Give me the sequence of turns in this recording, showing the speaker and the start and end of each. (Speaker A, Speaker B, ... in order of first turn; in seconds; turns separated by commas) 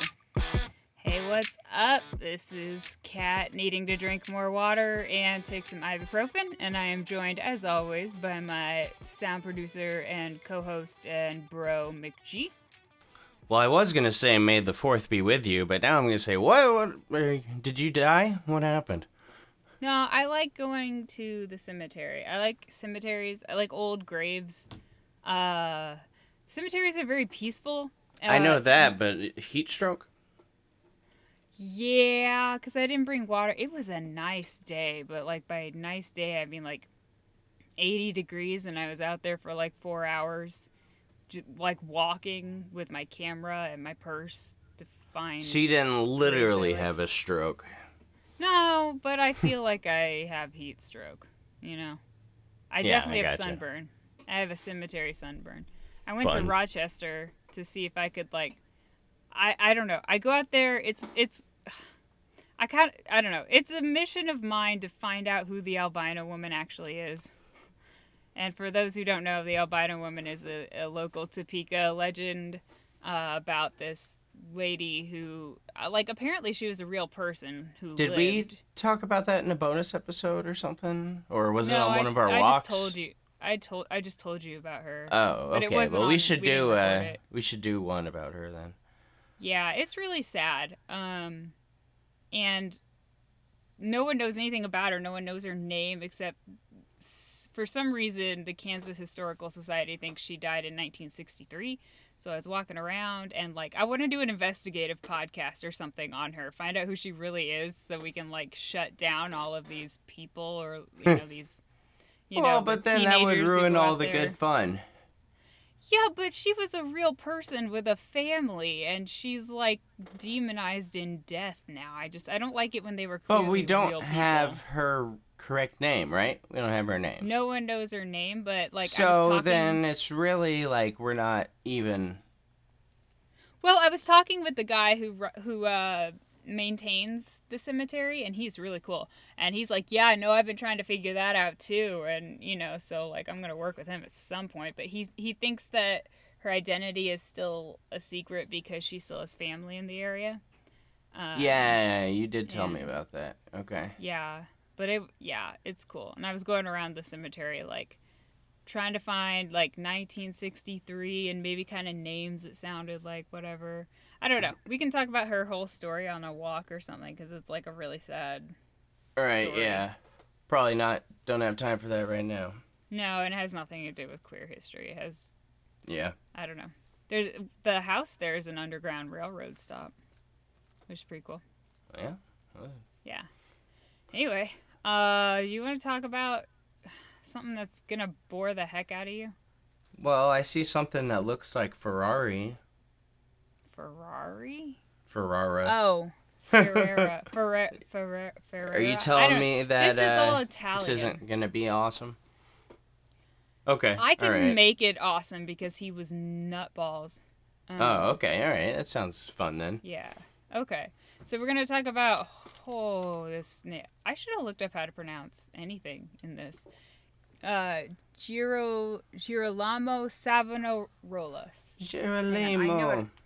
Speaker A: 1.0-12.5, Speaker B: 13.5-19.1, Speaker A: 19.8-24.7, Speaker A: 25.2-28.9, Speaker B: 28.3-30.1, Speaker A: 31.6-36.9, Speaker A: 37.8-40.7, Speaker A: 41.3-46.9, Speaker B: 45.4-47.7, Speaker A: 48.4-52.0, Speaker A: 52.7-58.6, Speaker B: 52.8-53.6, Speaker B: 56.2-56.5, Speaker A: 59.3-61.9, Speaker A: 62.6-67.3, Speaker A: 68.3-78.6, Speaker B: 78.0-82.9, Speaker A: 81.6-87.2, Speaker B: 85.1-88.8, Speaker A: 89.4-91.5, Speaker A: 92.3-92.8, Speaker A: 93.8-96.4, Speaker A: 97.0-111.6, Speaker A: 112.3-114.4, Speaker B: 112.4-114.8, Speaker A: 115.9-124.6, Speaker B: 123.3-127.3, Speaker A: 127.2-129.8, Speaker B: 128.8-132.2, Speaker A: 133.6-150.4, Speaker A: 151.1-151.8, Speaker B: 151.3-153.9, Speaker A: 152.5-152.9, Speaker A: 154.0-158.0, Speaker A: 158.7-168.5, Speaker B: 169.2-170.0, Speaker A: 169.2-169.9, Speaker B: 170.5-172.6, Speaker A: 172.9-175.3, Speaker B: 175.9-176.2, Speaker A: 176.3-179.9, Speaker A: 180.9-181.4, Speaker B: 181.9-182.8, Speaker A: 184.1-189.3, Speaker B: 190.0-192.6, Speaker A: 193.7-194.8, Speaker B: 195.1-195.7, Speaker A: 195.7-201.2, Speaker B: 196.5-197.1, Speaker B: 198.7-202.2, Speaker B: 203.7-204.6, Speaker A: 204.0-208.2, Speaker B: 207.8-209.8, Speaker A: 209.8-216.7, Speaker A: 217.4-223.1, Speaker B: 221.8-223.1